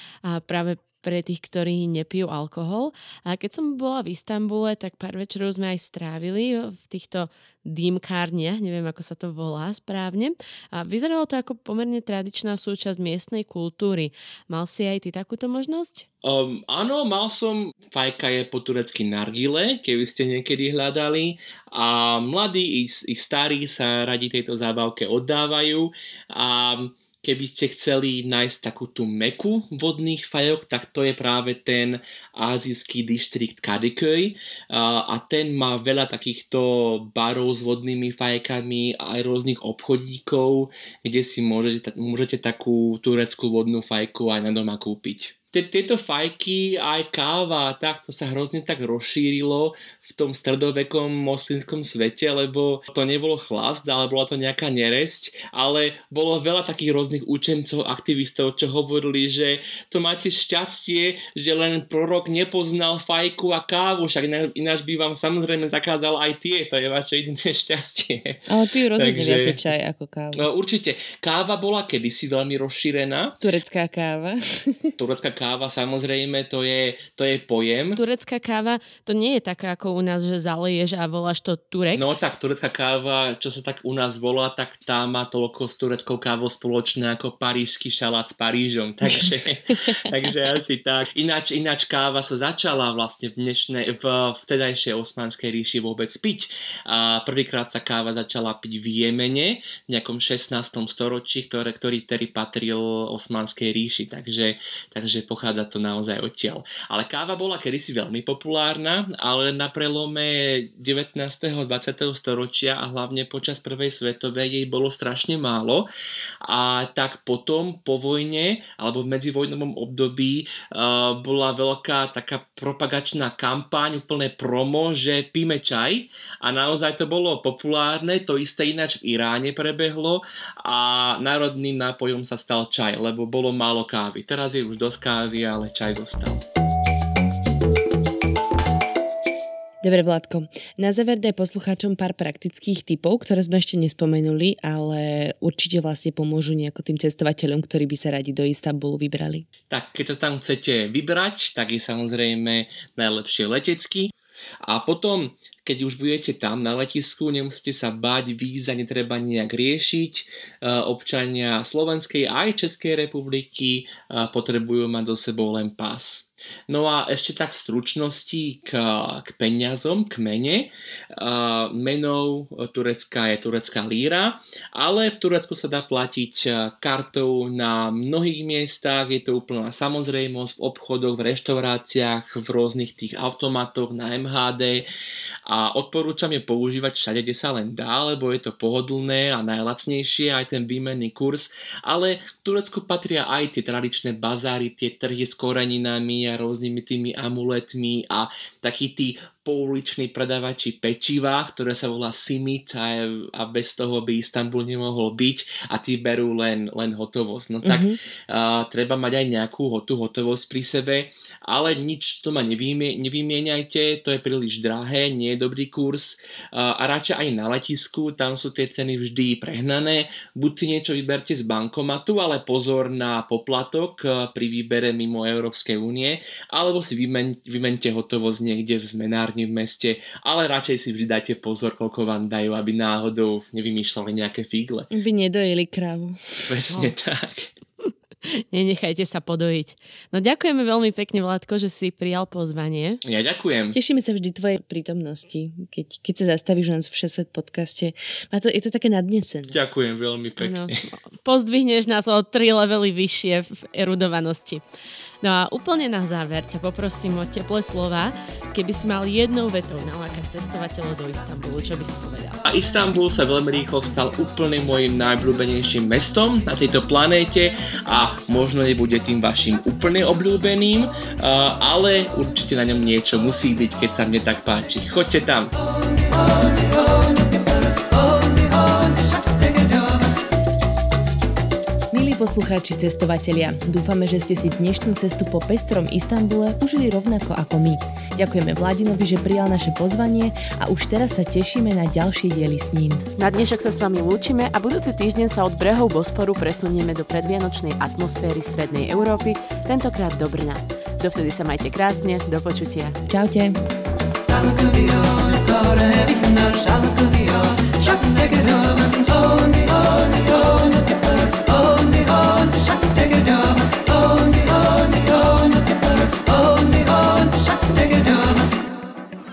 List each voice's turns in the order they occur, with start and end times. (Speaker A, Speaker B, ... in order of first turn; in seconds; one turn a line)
Speaker A: 0.2-16.1
Speaker B: 16.2-69.6
Speaker C: 68.5-70.5
Speaker B: 70.3-73.4
Speaker C: 73.4-75.0
Speaker B: 75.0-78.0
Speaker A: 78.0-82.1
Speaker B: 82.0-115.9
Speaker B: 116.4-136.4
Speaker C: 139.8-149.5
Speaker B: 149.7-154.1
Speaker B: 154.6-184.9
Speaker B: 185.5-234.9
Speaker C: 207.6-208.0
Speaker C: 234.9-236.6
Speaker B: 236.5-237.5
Speaker A: 238.3-243.0
Speaker B: 243.0-243.8
Speaker C: 243.7-249.6
Speaker B: 249.5-250.8
Speaker A: 250.4-254.6
Speaker A: 255.2-262.4
Speaker B: 262.4-275.5
Speaker C: 281.9-293.0
Speaker A: 293.2-303.0
Speaker C: 303.1-303.6
Speaker A: 304.4-310.7
Speaker A: 311.9-313.1
Speaker A: 314.4-315.0
Speaker A: 316.7-317.8